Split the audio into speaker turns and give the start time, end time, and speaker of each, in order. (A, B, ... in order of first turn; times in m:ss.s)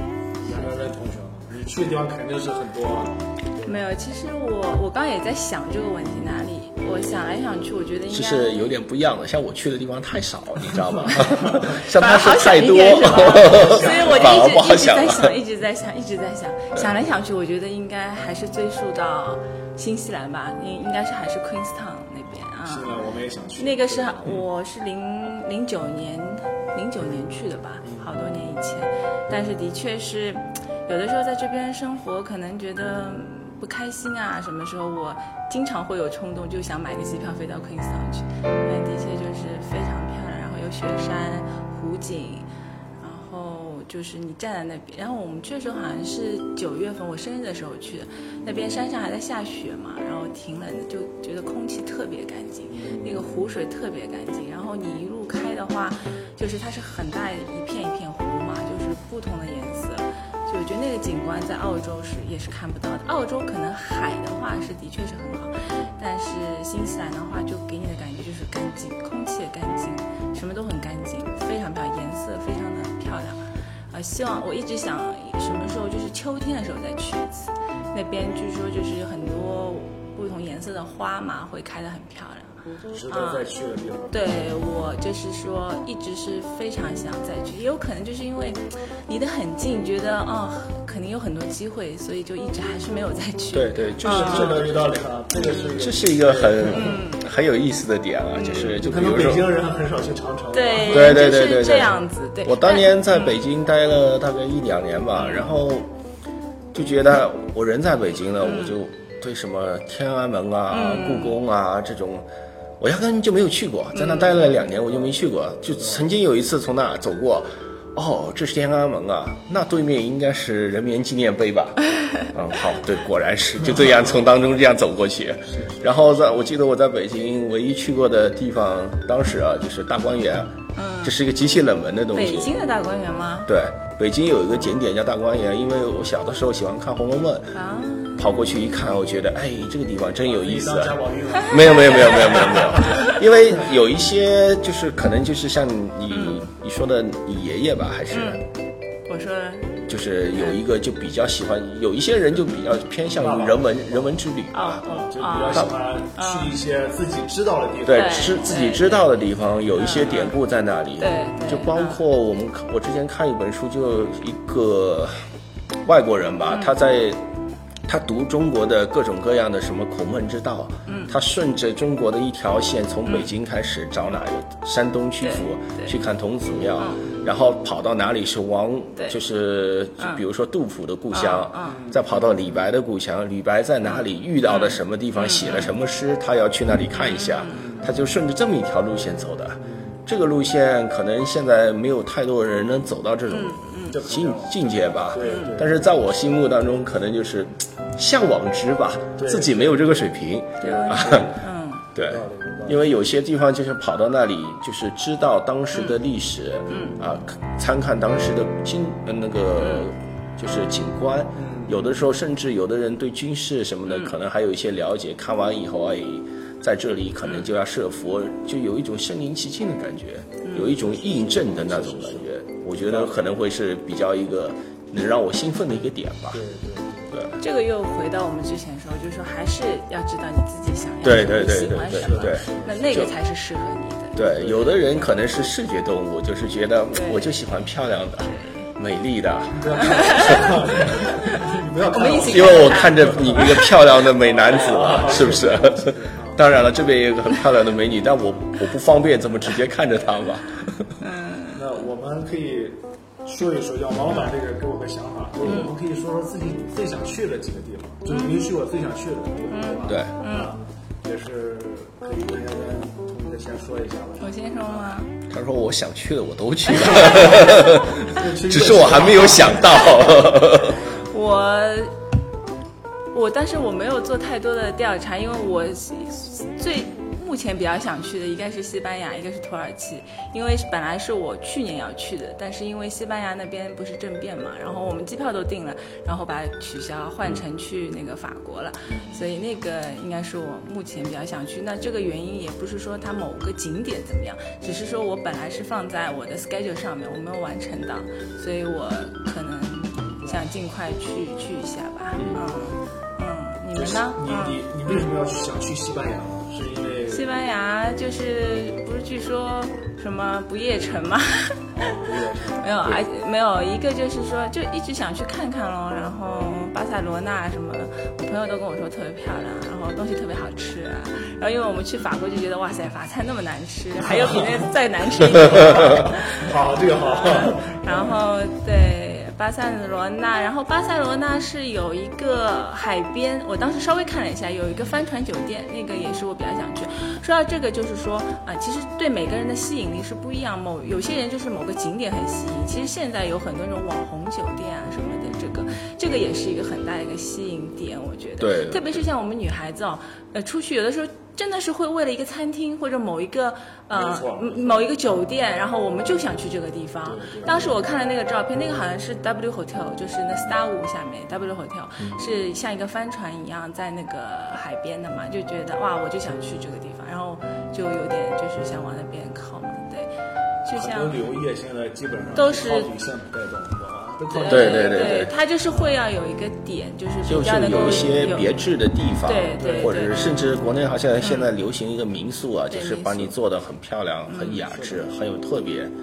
0:00.4-0:03.8 A
0:03.6-0:08.7 B
0:08.1-0:15.3 C
0:11.0-0:11.7 A
0:11.5-0:23.0 B
0:13.1-0:14.4 A
0:22.6-0:24.4 A
0:23.6-0:42.5 B
0:27.8-0:28.2 A
0:43.0-1:22.6 B
0:52.7-0:53.4 A
1:05.7-1:06.0 A
1:22.9-1:24.4 A
1:23.1-1:23.5 B
1:24.1-1:34.6 B
1:33.5-1:34.7 C
1:34.0-1:37.0 A
1:35.4-1:39.5 C
1:36.7-1:37.2 B
1:38.4-1:38.8 B
1:38.6-1:41.2 A
1:40.5-1:43.4 B
1:40.9-1:45.9 C
1:45.2-1:45.5 B
1:46.7-1:52.2 C
1:48.4-1:48.8 B
1:50.7-1:51.4 B
1:52.8-2:10.5 C
1:53.9-1:54.4 B
1:54.3-1:56.1 A
2:02.0-2:02.3 B
2:03.6-2:04.3 A
2:05.5-2:06.5 A
2:10.8-2:11.2 B
2:11.0-2:12.5 C
2:12.1-2:13.5 B
2:13.5-2:17.6 C
2:17.5-2:18.3 B
2:18.2-2:28.4 C
2:20.2-2:23.6 A
2:22.9-2:23.2 B
2:26.1-2:26.4 B
2:28.1-2:28.4 B
2:29.1-2:29.8 B
2:29.9-2:34.8 C
2:33.2-2:34.2 A
2:34.5-2:36.6 B
2:34.9-2:38.6 A
2:37.8-2:45.2 C
2:37.9-2:39.1 B
2:39.7-2:40.4 B
2:41.0-2:42.0 B
2:45.8-2:47.2 C
2:46.5-2:46.8 B
2:47.9-3:21.3 C
2:50.9-2:51.2 B
2:55.2-2:56.0 B
2:57.0-2:57.4 A
3:00.0-3:00.2 B
3:01.1-3:01.8 B
3:01.6-3:02.5 A
3:03.9-3:05.8 B
3:06.9-3:07.8 B
3:07.5-3:08.0 A
3:09.6-3:10.0 A
3:13.3-3:14.0 B
3:13.9-3:15.9 A
3:15.2-3:15.6 B
3:19.2-3:20.0 A
3:20.6-3:21.9 B
3:20.6-3:21.4 A
3:22.0-3:46.4 C
3:22.0-3:22.9 A
3:26.7-3:27.0 B
3:29.6-3:29.9 B
3:31.4-3:32.0 A
3:33.9-3:34.1 B
3:40.4-3:40.8 B
3:40.6-3:43.2 A
3:46.3-3:47.2 A
3:47.1-3:47.4 C
3:47.4-3:54.2 B
3:51.0-3:53.1 C
3:51.9-3:53.0 A
3:54.1-4:01.3 C
3:54.3-3:54.8 A
3:56.9-3:57.2 B
3:58.2-3:58.7 B
3:59.5-4:06.5 A
3:59.8-4:03.7 B
4:02.2-4:11.0 C
4:11.0-4:11.6 B
4:11.5-4:24.9 A
4:15.4-4:15.7 B
4:18.1-4:18.5 B
4:19.5-4:20.5 B
4:19.9-4:20.1 C
4:24.2-4:25.1 B
4:25.3-4:30.8 C
4:26.6-4:27.8 B
4:27.1-4:31.1 A
4:31.0-4:32.0 B
4:33.1-5:05.1 B
4:48.9-4:49.2 A
5:00.1-5:00.5 A
5:02.2-5:02.4 C
5:03.8-5:07.3 A
5:07.1-5:12.0 B
5:11.7-5:12.8 A
5:12.6-6:10.1 B
5:24.0-5:24.6 A
5:25.4-5:28.2 A
5:48.4-5:49.0 C
5:53.9-5:54.9 A
5:57.0-5:57.8 A
6:10.6-6:11.2 B
6:10.8-6:16.0 A
6:12.4-6:12.9 B
6:14.3-6:18.6 B
6:14.5-6:15.3 C
6:17.2-6:25.9 C
6:19.2-6:20.2 B
6:19.6-6:20.0 A
6:21.2-6:21.5 B
6:22.7-6:23.4 B
6:24.3-6:24.6 B
6:24.6-6:25.1 A